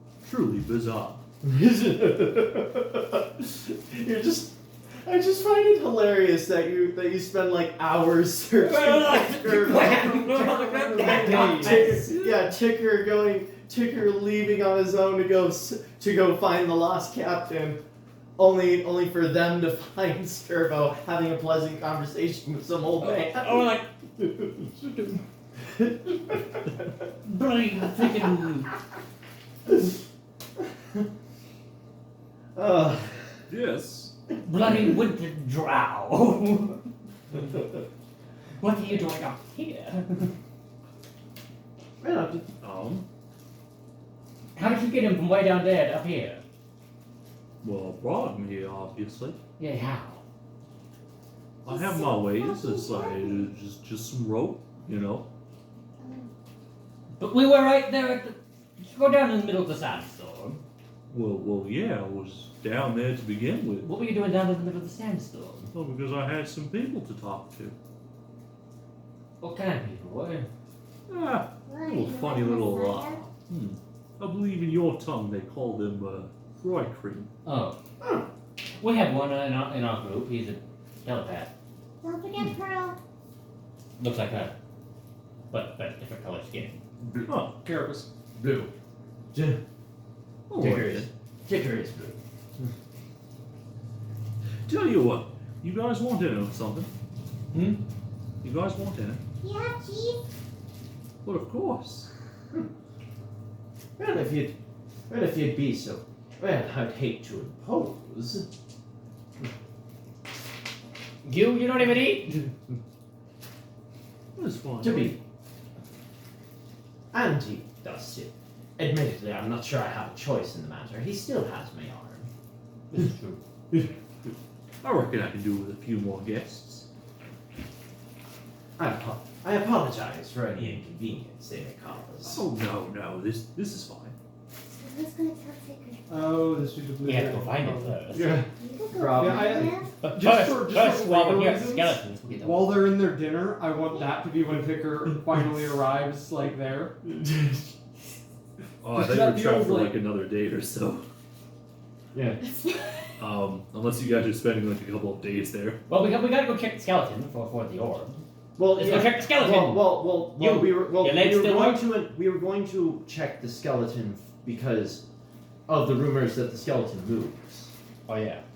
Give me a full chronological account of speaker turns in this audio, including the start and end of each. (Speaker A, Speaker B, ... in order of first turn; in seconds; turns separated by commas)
Speaker A: 0.2-1.2, Speaker B: 1.4-17.8, Speaker C: 8.6-12.1, Speaker D: 10.2-11.8, Speaker A: 11.5-12.5, Speaker B: 18.4-24.7, Speaker C: 23.0-23.9, Speaker B: 25.7-26.4, Speaker C: 27.2-28.7, Speaker B: 32.5-33.3, Speaker A: 33.5-34.1, Speaker C: 34.4-36.8, Speaker C: 38.6-40.3, Speaker B: 42.0-42.5, Speaker A: 42.6-43.0, Speaker C: 44.5-46.4, Speaker A: 47.6-49.4, Speaker C: 49.6-50.2, Speaker A: 51.6-55.3, Speaker E: 51.6-53.5, Speaker E: 56.0-56.3, Speaker C: 57.2-60.6, Speaker A: 61.1-63.9, Speaker C: 63.8-65.7, Speaker A: 65.7-67.8, Speaker C: 69.4-70.5, Speaker A: 71.1-77.3, Speaker E: 71.7-73.2, Speaker C: 77.4-77.8, Speaker B: 78.0-78.3, Speaker C: 78.8-81.5, Speaker E: 82.0-83.0, Speaker C: 84.0-84.5, Speaker C: 85.5-86.8, Speaker A: 87.2-87.5, Speaker D: 87.6-88.1, Speaker B: 88.3-88.7, Speaker B: 89.3-89.6, Speaker A: 90.5-91.1, Speaker B: 90.6-92.7, Speaker A: 94.7-96.9, Speaker A: 98.4-99.2, Speaker E: 99.4-100.2, Speaker A: 101.2-102.1, Speaker B: 104.0-104.5, Speaker B: 105.1-108.5, Speaker C: 111.2-112.5, Speaker A: 114.3-115.1, Speaker B: 114.8-115.2, Speaker B: 117.1-122.3, Speaker C: 122.9-123.4, Speaker A: 124.8-126.8, Speaker B: 128.8-132.4, Speaker A: 132.2-134.1, Speaker E: 134.7-136.1, Speaker D: 136.1-137.9, Speaker C: 137.0-138.4, Speaker B: 138.1-139.8, Speaker E: 138.6-140.0, Speaker D: 139.1-146.9, Speaker C: 140.0-142.9, Speaker E: 143.8-144.2, Speaker B: 147.0-147.7, Speaker A: 148.8-151.0, Speaker D: 148.9-149.9, Speaker B: 152.1-152.4, Speaker A: 153.2-155.8, Speaker C: 155.9-158.2, Speaker B: 158.6-165.0, Speaker C: 158.7-161.9, Speaker B: 165.7-167.7, Speaker C: 168.1-168.4